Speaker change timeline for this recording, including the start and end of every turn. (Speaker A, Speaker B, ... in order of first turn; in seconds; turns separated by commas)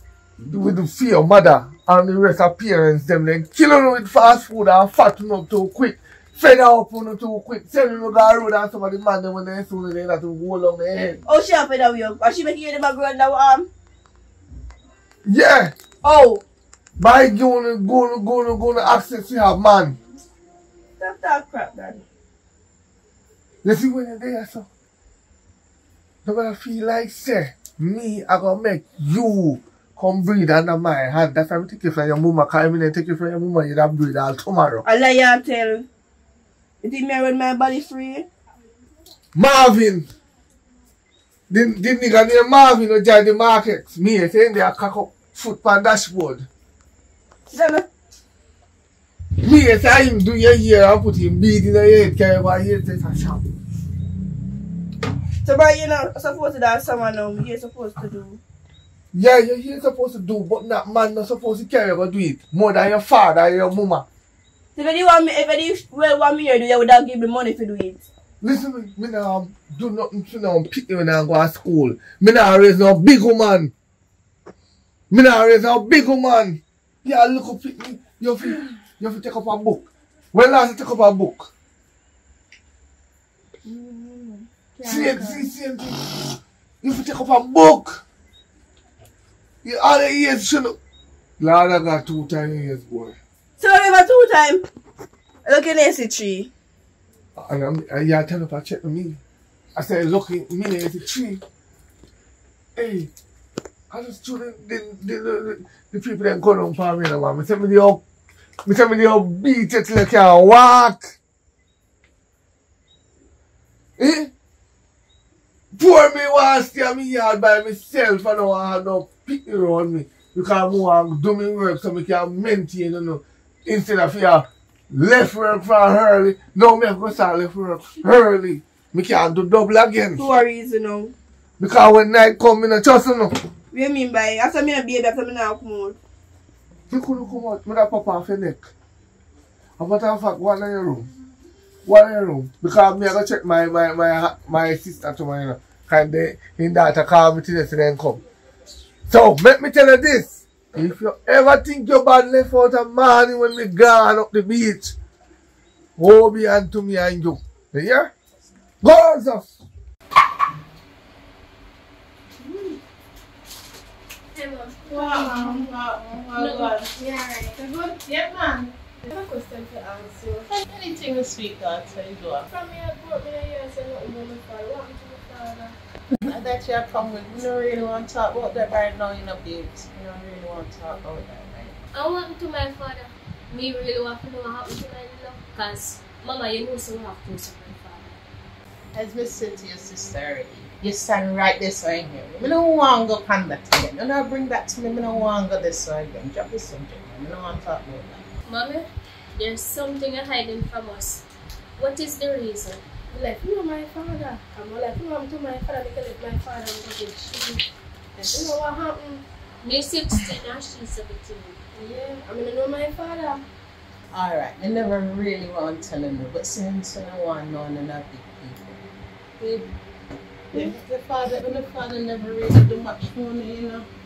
Speaker A: 0.4-11.2, Speaker B: 11.3-13.7, Speaker A: 15.2-15.8, Speaker B: 16.0-16.4, Speaker A: 17.0-20.0, Speaker B: 21.0-22.1, Speaker A: 23.6-24.7, Speaker A: 26.2-34.8, Speaker B: 34.9-35.9, Speaker B: 36.8-38.3, Speaker A: 39.4-40.1, Speaker A: 41.5-46.5, Speaker B: 47.5-47.9, Speaker A: 49.4-53.4, Speaker B: 55.4-58.4, Speaker A: 59.1-64.1, Speaker B: 64.8-68.0, Speaker A: 68.4-73.7, Speaker A: 75.1-81.5, Speaker B: 83.7-84.4, Speaker A: 84.8-88.0, Speaker C: 84.9-85.4, Speaker A: 89.6-90.8, Speaker A: 91.4-93.2, Speaker B: 93.6-94.6, Speaker B: 95.5-96.5, Speaker A: 97.4-99.2, Speaker A: 99.8-101.4, Speaker A: 102.8-103.1, Speaker A: 103.9-108.0, Speaker A: 108.7-111.2, Speaker A: 114.0-114.3, Speaker A: 115.7-130.3, Speaker B: 130.2-131.1, Speaker A: 131.6-133.4, Speaker B: 133.7-136.0, Speaker A: 136.9-138.7, Speaker A: 139.8-141.1, Speaker A: 141.8-148.2, Speaker A: 149.1-155.0, Speaker A: 156.0-158.1, Speaker A: 158.8-159.6, Speaker C: 164.3-165.8, Speaker D: 164.9-166.9, Speaker E: 166.4-166.7, Speaker C: 166.4-168.0, Speaker D: 168.1-168.8, Speaker C: 169.1-170.5, Speaker D: 170.5-172.5, Speaker C: 172.4-175.8, Speaker D: 176.3-181.8, Speaker E: 181.9-188.2, Speaker D: 188.9-198.3, Speaker E: 198.5-201.2, Speaker E: 201.8-202.8, Speaker C: 203.1-207.6, Speaker C: 208.2-209.3, Speaker E: 209.6-211.7, Speaker C: 211.8-213.4, Speaker D: 214.1-218.8, Speaker D: 219.4-219.7, Speaker D: 220.5-223.9